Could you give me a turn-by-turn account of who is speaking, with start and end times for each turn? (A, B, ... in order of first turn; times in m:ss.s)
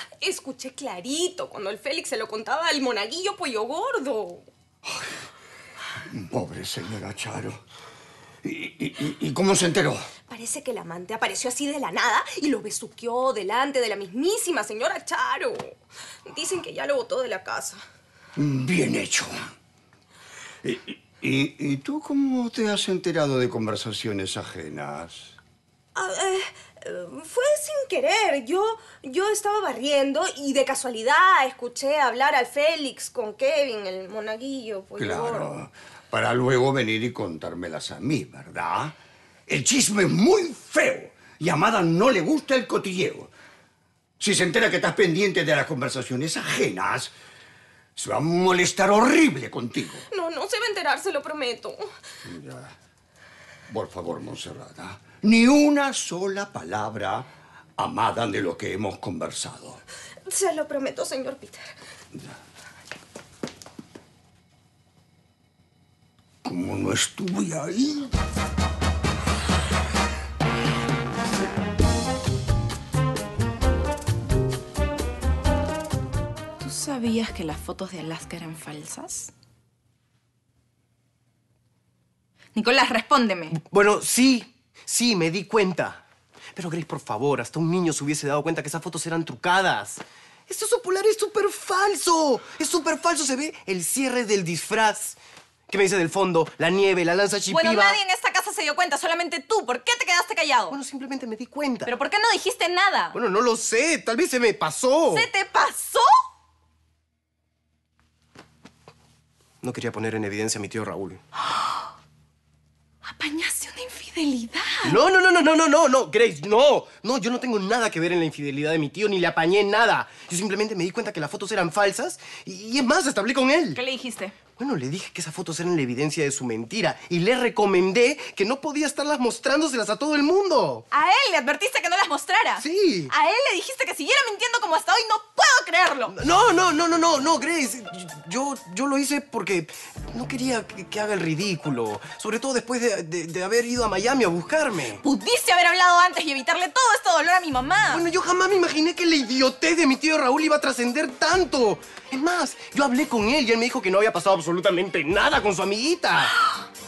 0:00.2-0:04.4 A
0:06.1-0:07.6 B
0:08.4-0:10.1 B
0:10.3-0:15.7 A
0:16.3-0:17.8 A
0:18.4-0:19.3 B
0:20.6-0:25.4 B
0:26.0-0:35.5 A
0:35.0-0:39.0 B
0:39.5-0:43.3 B
0:44.2-0:47.1 B
0:48.0-0:50.0 B
0:50.1-0:51.9 A
0:52.2-0:52.7 B
0:53.7-0:59.8 B
1:00.3-1:01.7 A
1:06.4-1:08.1 B
1:16.6-1:19.3 C
1:22.5-1:23.6 C
1:23.5-1:26.0 D
1:26.5-1:35.2 D
1:35.7-1:38.0 D
1:37.5-1:40.8 C
1:40.7-1:41.9 D
1:41.8-1:43.2 C
1:43.1-1:45.3 D
1:45.1-1:46.1 C
1:49.6-1:51.2 D
1:51.4-1:51.8 C
1:53.0-1:54.9 C
1:54.8-2:03.8 D
2:03.7-2:04.4 C
2:04.5-2:10.8 D
2:10.9-2:16.1 C
2:12.6-2:13.1 D
2:16.1-2:25.0 D
2:25.0-2:28.0 C
2:27.9-2:36.3 D
2:36.4-2:36.6 C